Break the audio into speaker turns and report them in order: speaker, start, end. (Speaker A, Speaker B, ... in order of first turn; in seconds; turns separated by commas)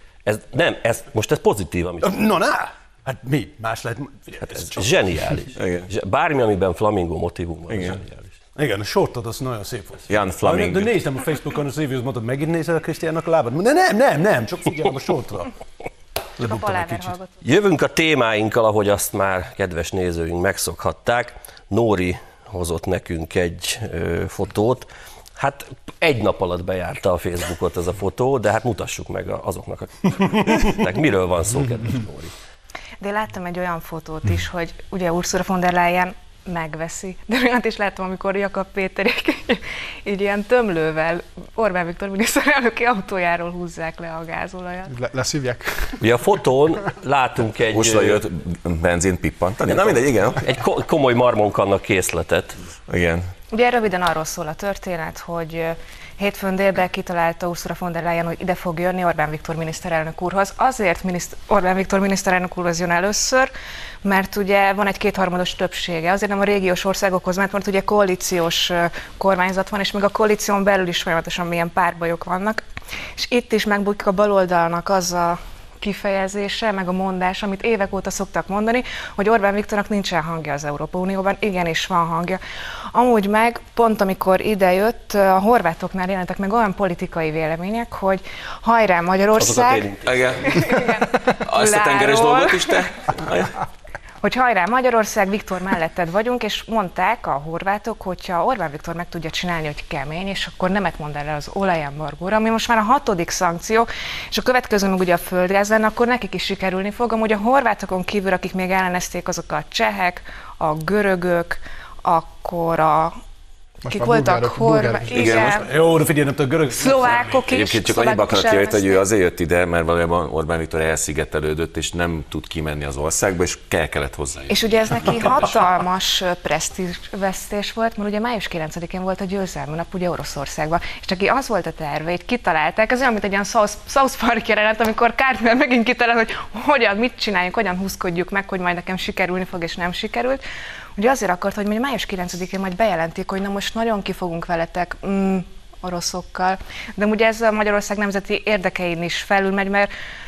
Speaker A: 0.2-2.1, Speaker B: 2.0-5.0, Speaker A: 4.4-8.3, Speaker C: 5.6-5.9, Speaker C: 7.7-8.0, Speaker B: 8.6-15.5, Speaker C: 10.1-10.9, Speaker B: 16.4-17.1, Speaker D: 16.4-17.3, Speaker A: 17.4-32.3, Speaker D: 33.0-45.0, Speaker E: 44.9-46.0, Speaker A: 46.0-48.2, Speaker C: 47.7-50.4, Speaker A: 49.7-52.6, Speaker C: 52.9-53.3, Speaker D: 53.5-63.5, Speaker D: 64.0-72.6, Speaker D: 73.2-82.4, Speaker D: 82.9-89.9, Speaker A: 89.4-90.6, Speaker C: 90.1-90.9, Speaker D: 90.5-92.9, Speaker C: 91.4-93.6, Speaker D: 94.2-113.1, Speaker E: 113.8-115.5, Speaker D: 113.9-115.7, Speaker C: 115.1-115.6, Speaker B: 115.6-117.5, Speaker D: 116.7-119.0, Speaker C: 117.5-125.4, Speaker D: 124.5-140.4, Speaker D: 141.0-149.9